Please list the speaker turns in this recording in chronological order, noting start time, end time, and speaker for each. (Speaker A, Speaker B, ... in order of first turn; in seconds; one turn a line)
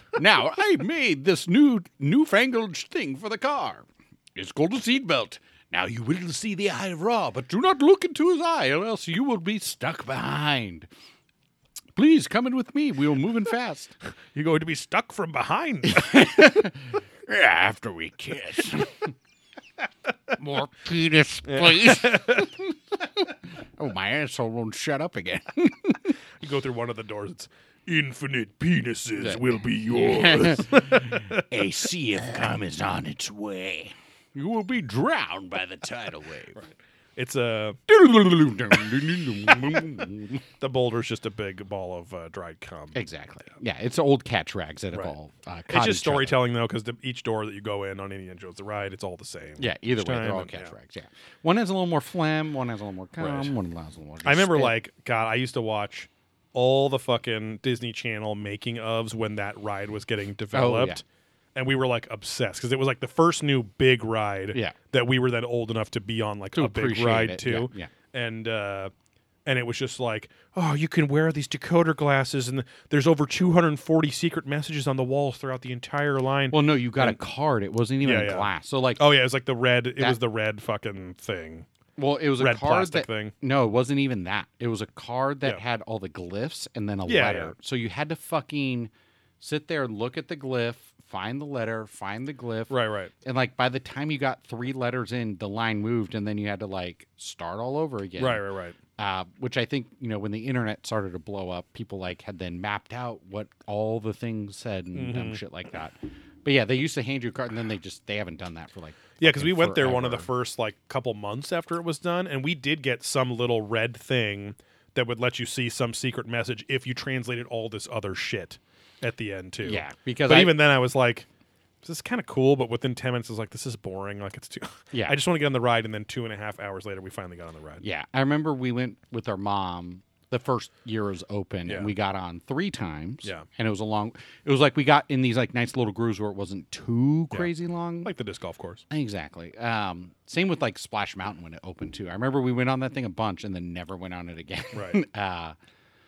Speaker A: 0.2-10.9
Speaker A: 11.9-13.9
Speaker B: 14.3-16.4
Speaker A: 15.9-19.1
Speaker A: 20.4-26.2
Speaker B: 21.4-22.5
Speaker B: 26.4-31.4
Speaker A: 29.2-36.6
Speaker B: 36.6-37.8
Speaker A: 37.9-40.4
Speaker B: 40.6-43.0
Speaker A: 42.9-46.4
Speaker B: 45.7-50.7
Speaker A: 49.6-54.8
Speaker B: 53.2-53.5
Speaker B: 54.2-61.0
Speaker A: 60.5-61.0
Speaker B: 61.5-68.9
Speaker A: 66.5-67.9
Speaker B: 69.5-77.2
Speaker A: 76.5-79.0
Speaker B: 78.0-81.7
Speaker A: 82.0-98.5
Speaker B: 82.4-83.3
Speaker B: 87.1-87.5
Speaker B: 92.7-93.1
Speaker B: 98.2-98.8
Speaker A: 99.0-110.3
Speaker B: 105.0-105.4
Speaker B: 109.2-121.3
Speaker A: 119.6-120.6
Speaker B: 121.8-127.8
Speaker A: 124.9-125.2
Speaker A: 127.8-138.1
Speaker B: 138.0-138.8
Speaker A: 138.9-145.6
Speaker B: 144.7-145.0